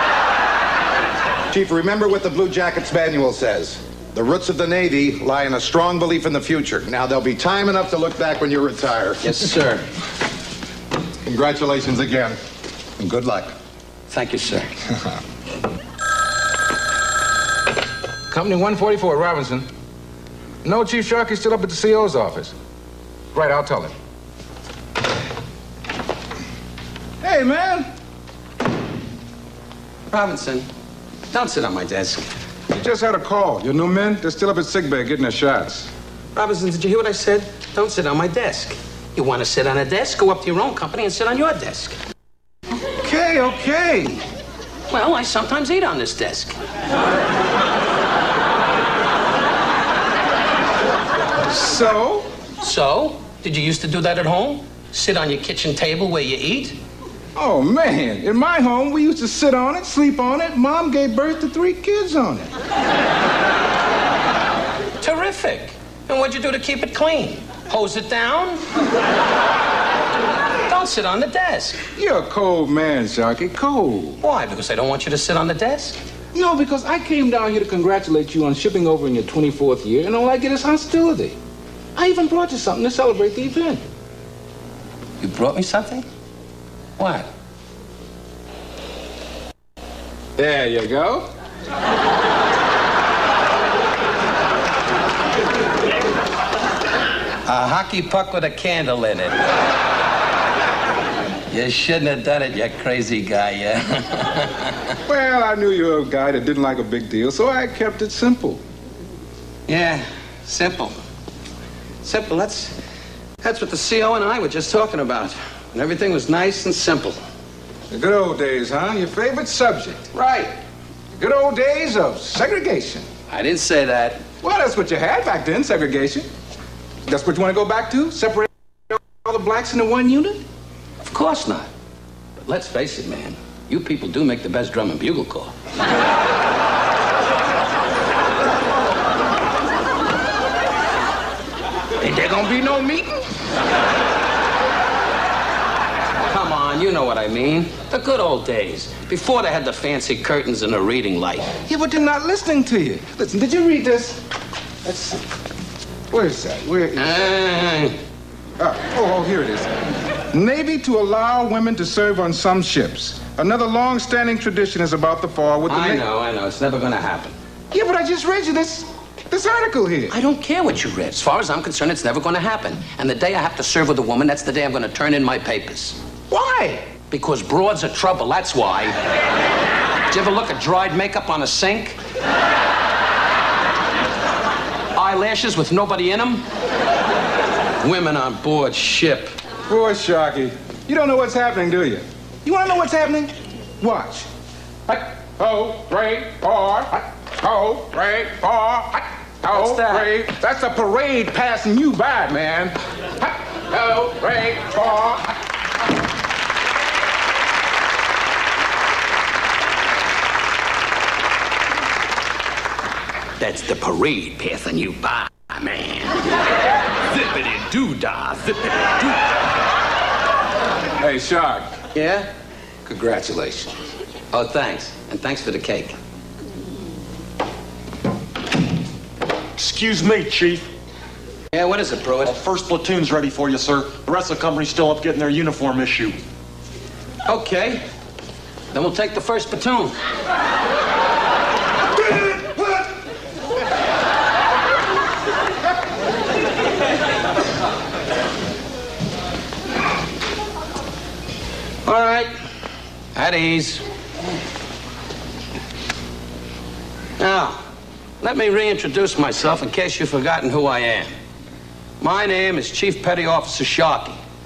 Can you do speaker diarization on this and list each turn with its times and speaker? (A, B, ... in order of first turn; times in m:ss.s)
0:01.5-0:09.3 A
0:09.2-0:09.8 B
0:11.2-0:12.4 A
0:13.0-0:13.5 A
0:14.1-0:14.7 B
0:18.3-0:19.7 C
0:20.6-0:22.5 C
0:23.3-0:23.9 C
0:27.2-0:27.9 C
0:30.1-0:30.7 B
0:31.3-0:32.2 B
0:32.7-0:35.9 C
0:36.3-0:42.0 B
0:43.0-0:44.2 C
0:44.9-0:46.6 B
0:51.5-0:52.3 C
0:52.6-0:56.8 B
0:57.4-1:02.5 C
1:05.0-1:08.6 B
1:10.7-1:11.8 B
1:12.0-1:14.2 C
1:14.2-1:16.0 B
1:16.3-1:21.4 C
1:21.9-1:23.8 C
1:25.2-1:26.0 B
1:27.0-1:27.3 B
1:30.4-1:31.3 C
1:37.4-1:39.4 B
1:41.5-1:44.7 B
1:45.1-1:48.6 C
1:49.7-1:50.9 B
1:52.0-1:52.7 B
1:53.4-1:57.2 B
1:57.9-2:00.1 C
2:00.1-2:00.5 B
2:01.2-2:03.0 C
2:03.3-2:04.2 B
2:04.4-2:06.3 C
2:07.0-2:10.4 C
2:11.0-2:11.7 B
2:12.4-2:15.5 B
2:22.0-2:23.1 C
2:26.3-2:31.5 B
2:31.7-2:34.2 C
2:34.8-2:35.2 C
2:36.1-2:37.3 C
2:37.0-2:38.0 B
2:38.6-2:39.7 C
2:40.3-2:46.0 C
2:45.7-2:47.3 B
2:47.7-2:50.1 C
2:50.1-2:56.0 B
2:56.3-2:56.8 C
2:57.1-2:59.0 B
3:00.1-3:02.0 B
3:04.9-3:06.4 B
3:07.8-3:09.3 B
3:09.7-3:14.3 C
3:14.9-3:25.3 C
3:19.5-3:20.1 B
3:33.4-3:36.3 B
3:37.1-3:39.2 B
3:41.0-3:41.7 C
3:41.9-3:42.3 B
3:42.8-3:43.7 C
3:44.3-3:45.9 B
3:49.6-3:50.7 D
3:51.5-3:52.3 B
3:52.2-3:56.2 D
3:57.2-3:57.8 B
3:58.7-3:59.9 B
4:11.8-4:12.3 B
4:13.1-4:13.8 B
4:17.2-4:17.6 B
4:18.2-4:21.1 B
4:22.0-4:24.2 B